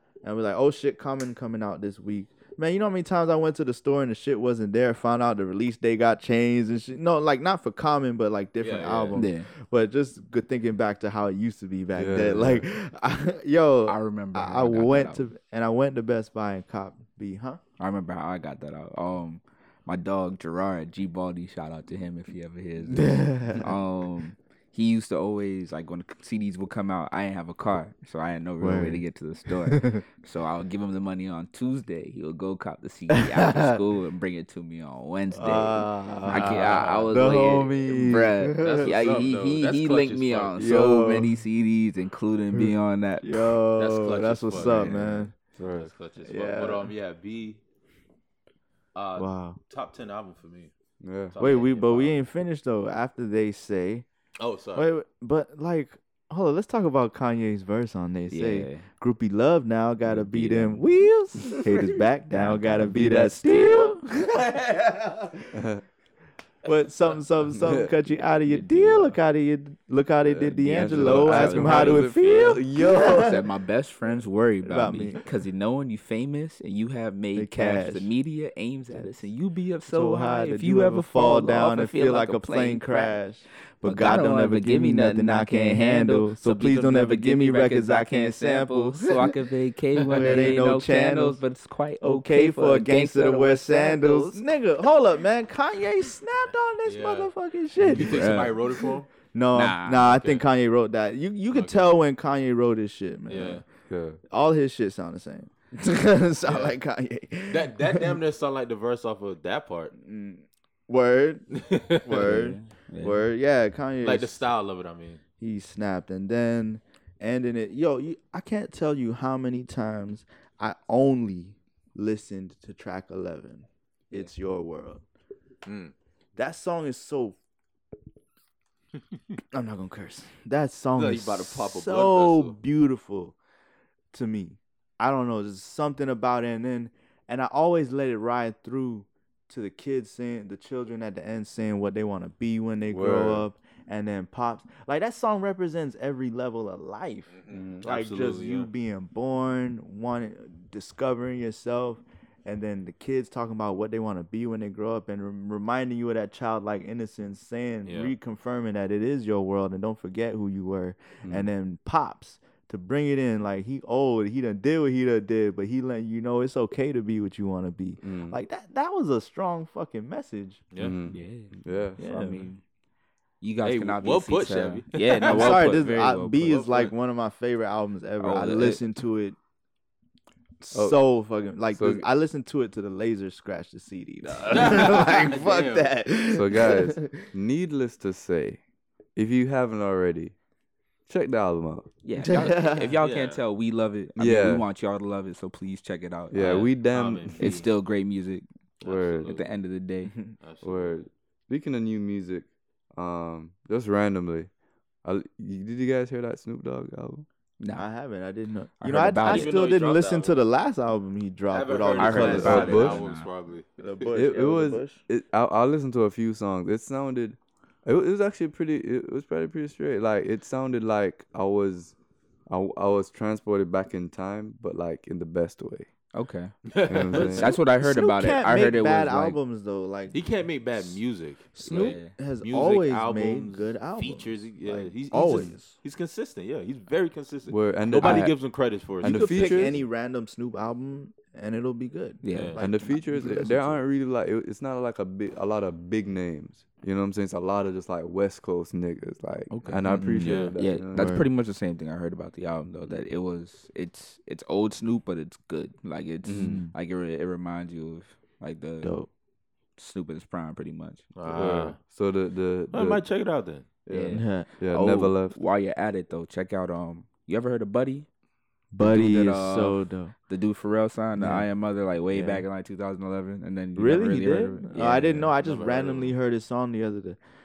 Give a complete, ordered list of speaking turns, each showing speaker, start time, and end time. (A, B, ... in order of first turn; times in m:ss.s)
0:00.2-0:17.6 A
0:08.6-0:09.2 B
0:09.1-0:09.5 C
0:12.0-0:12.7 D
0:13.9-0:15.3 C
0:17.8-0:43.6 C
0:22.9-0:23.7 A
0:28.6-0:29.0 A
0:29.6-0:30.0 A
0:33.1-0:33.8 A
0:35.3-0:38.9 A
0:36.3-0:37.1 B
0:38.6-0:40.6 B
0:40.6-0:41.3 A
0:42.6-0:45.3 A
0:43.8-0:45.0 B
0:44.5-0:45.3 C
0:45.6-0:45.9 D
0:45.6-0:47.6 B
0:46.2-0:46.9 A
0:49.0-0:50.7 B
0:49.2-0:49.6 A
0:51.0-0:51.4 D
0:51.3-0:52.2 B
0:51.4-0:54.0 A
0:54.4-0:54.9 B
0:54.8-1:05.5 A
0:58.3-0:58.9 C
1:00.0-1:00.9 C
1:01.6-1:03.8 C
1:02.8-1:03.9 D
1:05.5-1:05.8 D
1:06.6-1:13.4 A
1:07.5-1:07.9 D
1:08.5-1:09.2 C
1:10.3-1:13.3 D
1:10.6-1:23.2 C
1:14.6-1:15.3 A
1:17.4-1:18.1 A
1:19.9-1:29.4 A
1:23.8-1:34.4 C
1:30.0-1:31.4 A
1:30.2-1:30.4 B
1:32.0-1:43.6 A
1:36.8-1:39.1 B
1:37.9-1:38.6 C
1:39.5-1:40.3 C
1:40.2-1:40.4 B
1:41.5-1:41.9 B
1:43.3-1:43.6 B
1:43.9-1:44.2 D
1:44.3-1:48.2 A
1:46.5-1:46.8 B
1:47.5-1:49.9 B
1:50.0-1:54.4 A
1:51.5-1:52.4 B
1:52.2-1:53.3 C
1:54.0-1:55.2 B
1:55.4-2:05.0 A
2:05.6-2:05.9 B
2:06.4-2:07.4 A
2:09.5-2:13.4 A
2:10.9-2:12.6 B
2:14.1-2:50.6 A
2:22.9-2:23.5 D
2:27.3-2:28.7 B
2:27.5-2:27.8 D
2:37.8-2:38.2 B
2:41.2-2:41.5 D
2:48.0-2:48.4 D
2:50.7-2:51.0 B
2:50.8-2:52.0 D
2:51.1-2:52.6 C
2:52.0-2:52.5 A
2:53.4-2:56.6 C
2:53.6-2:55.9 B
2:55.2-2:59.4 A
2:56.4-2:56.9 B
2:58.2-2:58.8 C
3:00.6-3:07.1 A
3:00.7-3:01.0 D
3:01.7-3:02.1 D
3:04.5-3:05.9 B
3:06.3-3:08.6 D
3:09.2-3:10.4 D
3:11.1-3:11.9 D
3:12.0-3:16.7 C
3:12.2-3:13.0 A
3:13.0-3:13.4 B
3:14.2-3:14.6 D
3:16.3-3:17.6 D
3:16.4-3:17.7 B
3:17.4-3:18.4 C
3:18.8-3:19.5 B
3:18.8-3:19.4 D
3:19.3-3:20.1 C
3:20.4-3:21.1 B
3:20.6-3:24.5 D
3:25.0-3:27.3 D
3:27.6-3:27.9 C
3:27.8-3:32.9 A
3:28.8-3:29.6 C
3:29.2-3:30.4 B
3:31.5-3:34.1 B
3:31.9-3:33.3 C
3:32.1-3:33.0 D
3:33.8-3:35.0 A
3:34.1-3:42.0 D
3:42.5-3:45.9 D
3:46.2-3:46.5 C
3:46.7-3:47.5 B
3:46.9-3:47.6 D
3:47.1-3:49.4 C
3:47.6-3:50.2 A
3:50.1-3:59.7 B
3:51.5-3:55.8 A
3:51.7-3:52.1 C
3:57.5-3:58.3 D
3:58.0-3:58.3 C
3:59.0-3:59.8 D
3:59.0-4:03.8 A
4:02.2-4:02.6 C
4:02.3-4:02.6 B
4:02.6-4:11.2 D
4:09.5-4:10.0 C
4:09.9-4:11.3 A
4:10.2-4:10.6 B
4:10.6-4:19.0 C
4:16.2-4:16.6 D
4:16.4-4:16.7 A
4:18.8-4:19.1 A
4:19.8-4:21.1 C
4:21.2-4:21.8 B
4:21.3-4:23.0 D
4:22.7-4:23.7 B
4:23.9-4:25.4 D
4:23.9-4:28.1 C
4:24.1-4:24.5 A
4:28.7-4:30.1 A
4:28.8-4:35.3 C
4:31.2-4:31.5 A
4:32.1-4:32.4 A
4:33.8-4:37.2 A
4:35.4-4:36.2 B